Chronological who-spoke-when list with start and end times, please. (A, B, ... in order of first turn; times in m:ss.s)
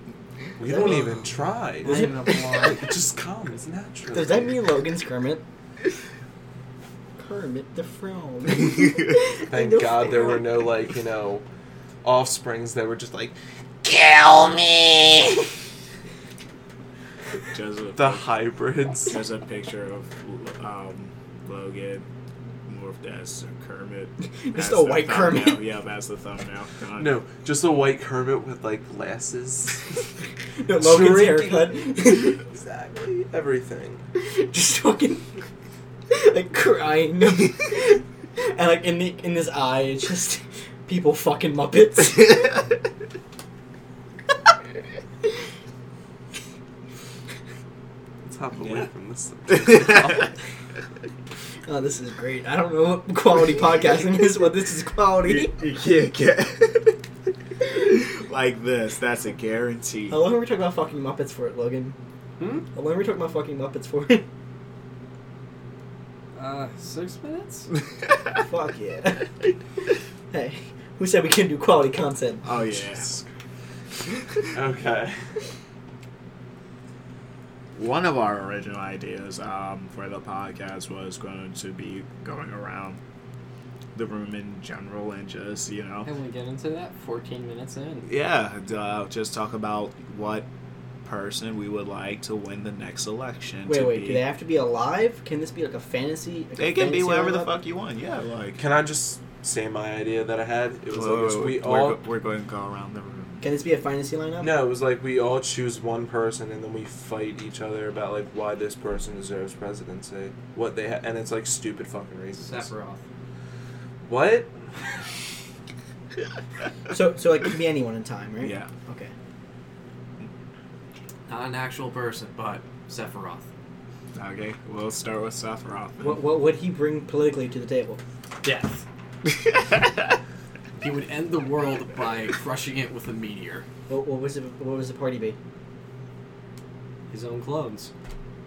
0:00.6-0:02.1 A
0:00.6-0:01.2 B
0:01.8-0:02.9 C
0:01.8-0:02.7 B
0:02.6-0:04.5 A
0:04.1-0:05.4 B
0:07.2-0:10.4 B
0:09.5-0:11.4 A
0:12.0-0:15.4 A
0:17.5-0:18.3 D
0:18.0-0:19.2 A
0:19.0-0:22.0 D
0:22.6-0:27.1 D
0:24.4-0:25.6 B
0:27.0-0:30.0 A
0:30.6-0:32.4 B
0:30.8-0:34.0 A
0:34.2-0:35.3 B
0:36.1-0:42.7 B
0:48.2-0:50.4 A
0:48.6-0:48.9 D
0:49.5-0:50.1 D
0:51.6-0:55.5 B
0:55.2-0:57.0 D
0:57.6-1:00.2 D
1:00.1-1:02.0 B
1:02.4-1:02.6 C
1:02.7-1:04.2 B
1:06.3-1:07.7 C
1:08.4-1:09.4 B
1:10.3-1:12.5 B
1:12.4-1:13.1 D
1:12.9-1:13.3 A
1:14.5-1:15.2 A
1:17.7-1:23.0 D
1:23.9-1:26.1 D
1:26.0-1:28.1 C
1:28.0-1:30.5 D
1:31.0-1:34.2 D
1:33.6-1:37.5 B
1:36.6-1:38.6 D
1:38.6-1:42.0 A
1:40.9-1:43.4 D
1:43.4-1:44.5 B
1:44.4-1:52.7 A
1:52.4-1:53.0 C
1:54.0-1:54.5 A
1:56.9-1:59.1 B
1:58.4-1:58.7 D
2:01.3-2:03.4 C
2:04.1-2:06.2 D
2:06.0-2:08.0 B
2:08.4-2:08.8 C
2:10.8-2:13.6 C
2:13.9-2:15.4 B
2:17.1-2:17.9 C